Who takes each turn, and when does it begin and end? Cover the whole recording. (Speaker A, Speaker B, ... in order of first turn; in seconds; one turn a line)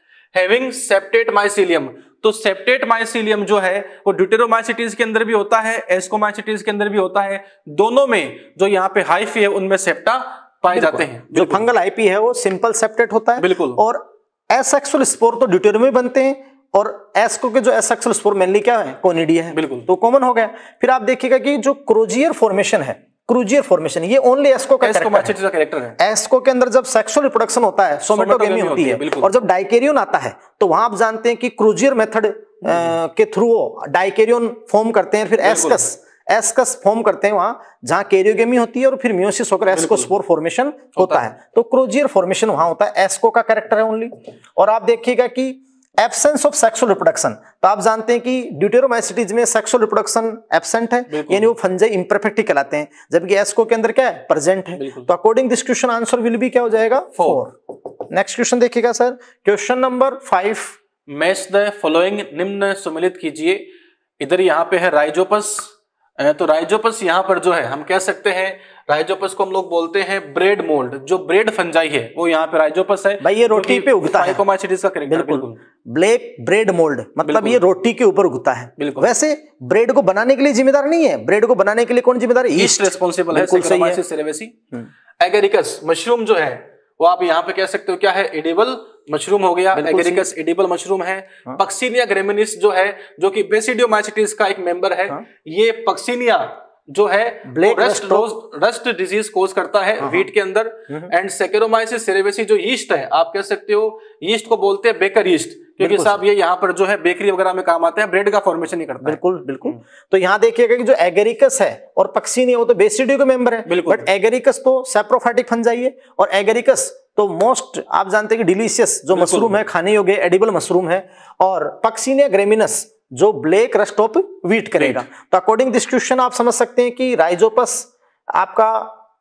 Speaker A: 0.3-11.7
Speaker B: 10.7-25.4
Speaker A: 13.4-13.8
Speaker A: 19.5-19.9
Speaker A: 24.8-26.0
Speaker B: 26.0-60.8
Speaker A: 28.1-29.3
Speaker A: 35.4-35.8
Speaker A: 39.7-40.1
Speaker A: 41.0-41.3
Speaker A: 51.1-51.5
Speaker A: 54.8-55.1
Speaker A: 61.1-63.7
Speaker A: 64.2-75.6
Speaker B: 73.2-74.4
Speaker B: 75.1-84.0
Speaker A: 77.2-77.6
Speaker A: 78.8-79.1
Speaker A: 82.6-84.6
Speaker A: 85.2-109.2
Speaker B: 89.7-90.2
Speaker B: 97.5-98.3
Speaker B: 100.0-100.3
Speaker B: 105.8-106.2
Speaker B: 109.0-128.9
Speaker A: 113.7-114.1
Speaker A: 119.1-119.6
Speaker A: 124.8-125.0